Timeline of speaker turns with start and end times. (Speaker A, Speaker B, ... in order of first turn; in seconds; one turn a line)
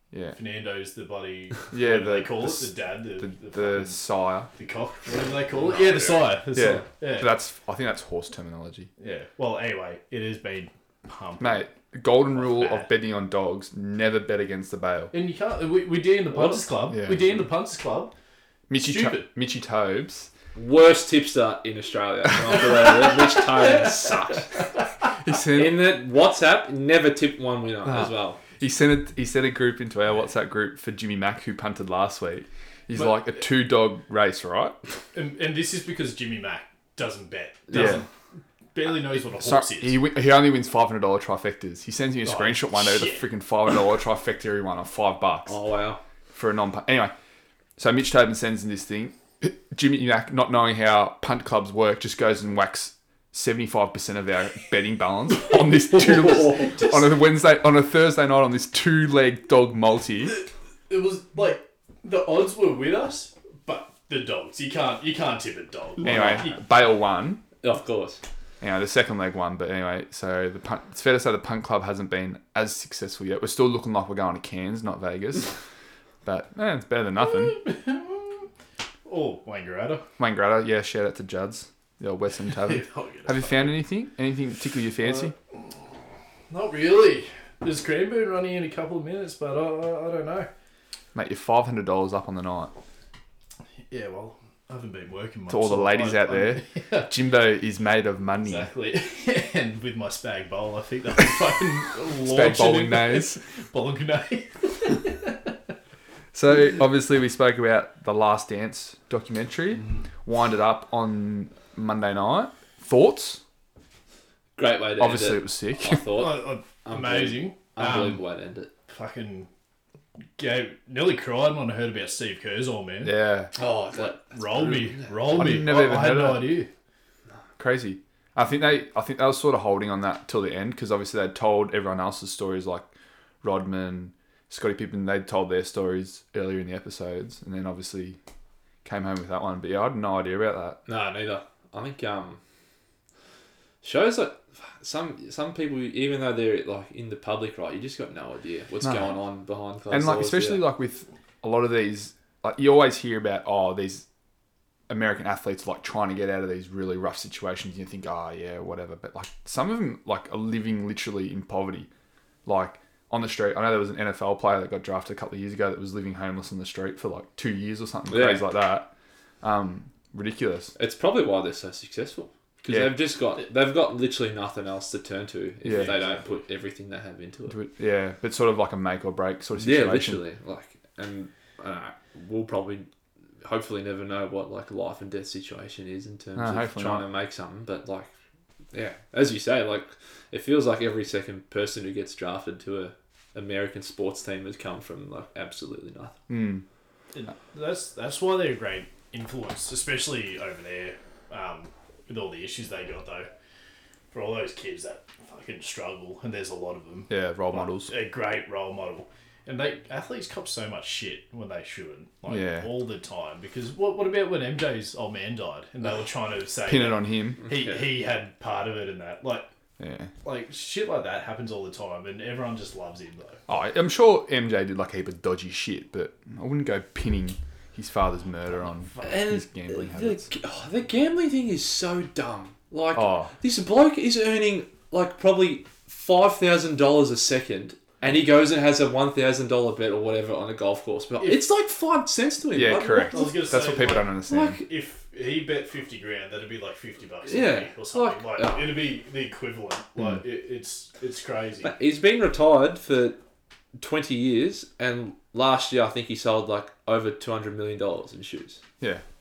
Speaker A: 0.1-0.4
Speaker B: 0.3-4.0
Speaker A: 1.7-4.5
Speaker B: 4.5-7.3
Speaker C: 5.7-6.2
Speaker A: 6.5-8.9
Speaker B: 9.0-11.7
Speaker A: 11.4-15.1
Speaker B: 12.3-12.9
Speaker B: 15.1-18.1
Speaker A: 16.3-17.4
Speaker A: 18.7-20.3
Speaker B: 18.8-19.2
Speaker C: 20.5-24.6
Speaker B: 23.0-24.1
Speaker A: 25.2-25.9
Speaker C: 25.5-28.4
Speaker A: 27.8-34.8
Speaker B: 32.9-33.2
Speaker B: 35.1-38.1
Speaker A: 37.7-38.0
Speaker B: 38.7-40.0
Speaker A: 39.2-45.6
Speaker B: 42.2-43.2
Speaker C: 45.5-46.0
Speaker A: 46.3-47.1
Speaker A: 47.8-60.4
Speaker C: 56.1-56.7
Speaker B: 60.9-66.5
Speaker A: 66.0-67.4
Speaker C: 66.0-66.5
Speaker C: 67.6-68.2
Speaker A: 68.6-75.6
Speaker A: 76.2-77.6
Speaker B: 77.5-78.5
Speaker B: 79.0-80.0
Speaker A: 80.2-85.3
Speaker B: 82.6-83.7
Speaker B: 85.0-85.3
Speaker B: 86.5-90.5
Speaker A: 91.1-92.7
Speaker B: 93.9-97.1
Speaker A: 95.5-98.7
Speaker B: 98.5-105.5
Speaker A: 102.1-103.4
Speaker A: 106.3-113.4
Speaker C: 114.5-118.7
Speaker A: 115.0-116.0
Speaker B: 116.0-118.2
Speaker B: 118.9-119.5
Speaker B: 120.4-123.2
Speaker A: 123.0-123.5
Speaker C: 123.5-125.4
Speaker B: 124.0-126.7
Speaker A: 125.3-126.6
Speaker A: 127.6-132.8
Speaker A: 133.4-138.2
Speaker A: 138.8-140.8
Speaker C: 140.8-142.4
Speaker C: 143.8-150.6
Speaker A: 149.9-154.1
Speaker A: 154.9-161.9
Speaker A: 162.4-168.9
Speaker C: 168.1-168.5
Speaker A: 169.4-170.7
Speaker C: 170.8-177.6
Speaker A: 172.7-172.9
Speaker A: 175.6-176.0
Speaker B: 175.7-176.4
Speaker A: 177.5-180.2
Speaker C: 179.6-182.9
Speaker C: 183.4-188.1
Speaker A: 186.3-187.0
Speaker C: 188.7-196.2
Speaker A: 196.3-196.6
Speaker B: 197.1-203.3
Speaker B: 204.1-219.5
Speaker A: 207.1-207.9
Speaker A: 212.3-212.7
Speaker A: 216.7-217.4
Speaker C: 217.4-217.8
Speaker A: 219.8-220.1
Speaker B: 220.2-223.4
Speaker A: 223.5-230.3
Speaker B: 228.7-229.1
Speaker C: 229.0-243.5
Speaker A: 232.9-233.3
Speaker B: 241.2-241.4
Speaker A: 242.5-244.6
Speaker B: 243.1-251.7
Speaker C: 244.3-244.6
Speaker C: 247.3-248.7
Speaker C: 251.6-253.2
Speaker C: 253.8-258.6